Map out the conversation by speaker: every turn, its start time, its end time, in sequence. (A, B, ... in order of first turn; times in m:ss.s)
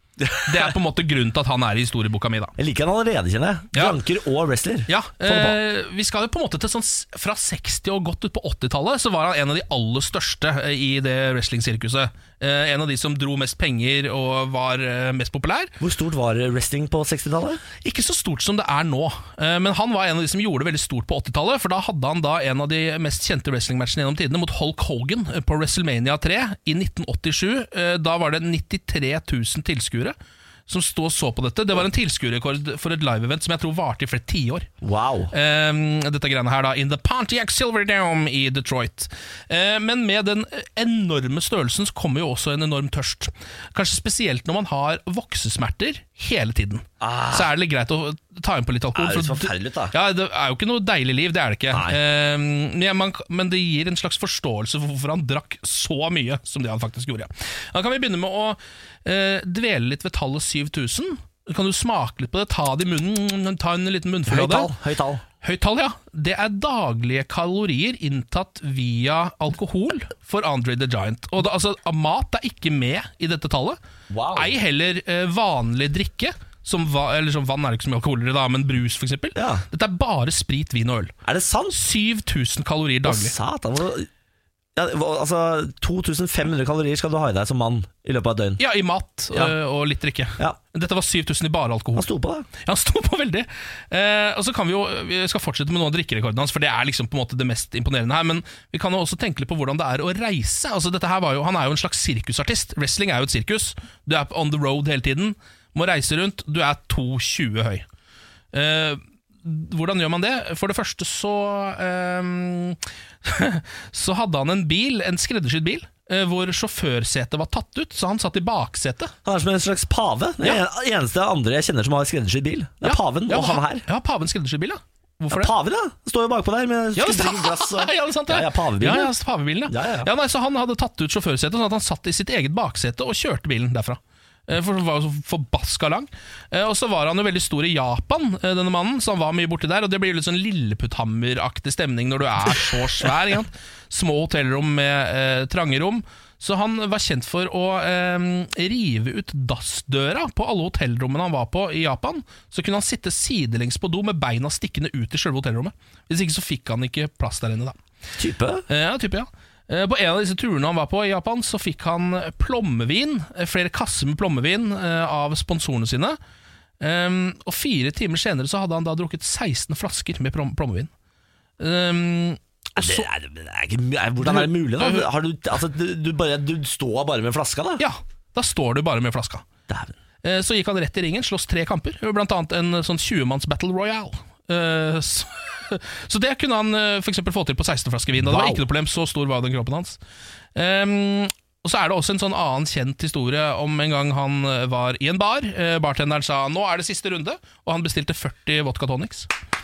0:00.2-0:00.6 A
0:00.4-0:02.5 B
0:02.6-0:05.6 A
0:04.9-0:15.7 B
0:15.8-0:17.6 A
0:17.8-0:30.1 B
0:30.7-0:34.7 B
0:34.8-0:35.3 A
0:35.3-1:04.7 B
0:47.0-0:47.5 A
0:48.9-0:49.9 A
0:51.7-0:52.0 A
1:04.2-1:05.2 A
1:05.4-1:13.8 B
1:14.1-1:14.5 A
1:14.3-1:21.1 B
1:19.3-1:19.6 A
1:21.2-1:21.8 A
1:21.7-1:23.3 B
1:23.0-1:24.1 A
1:24.8-1:28.6 A
1:28.6-1:47.8 B
1:31.9-1:32.5 A
1:48.5-1:59.1 B
1:59.2-2:03.9 A
2:02.8-2:05.5 B
2:05.3-2:09.1 A
2:06.9-2:37.8 B
2:09.7-2:10.1 A
2:38.2-2:38.6 A
2:38.7-2:46.2 B
2:46.8-2:50.9 B
2:51.6-2:53.0 B
2:52.8-2:57.8 A
2:54.2-2:55.1 B
2:57.8-2:59.4 B
2:59.7-2:59.9 A
3:00.2-3:10.0 B
3:08.2-3:08.6 A
3:10.5-3:19.3 B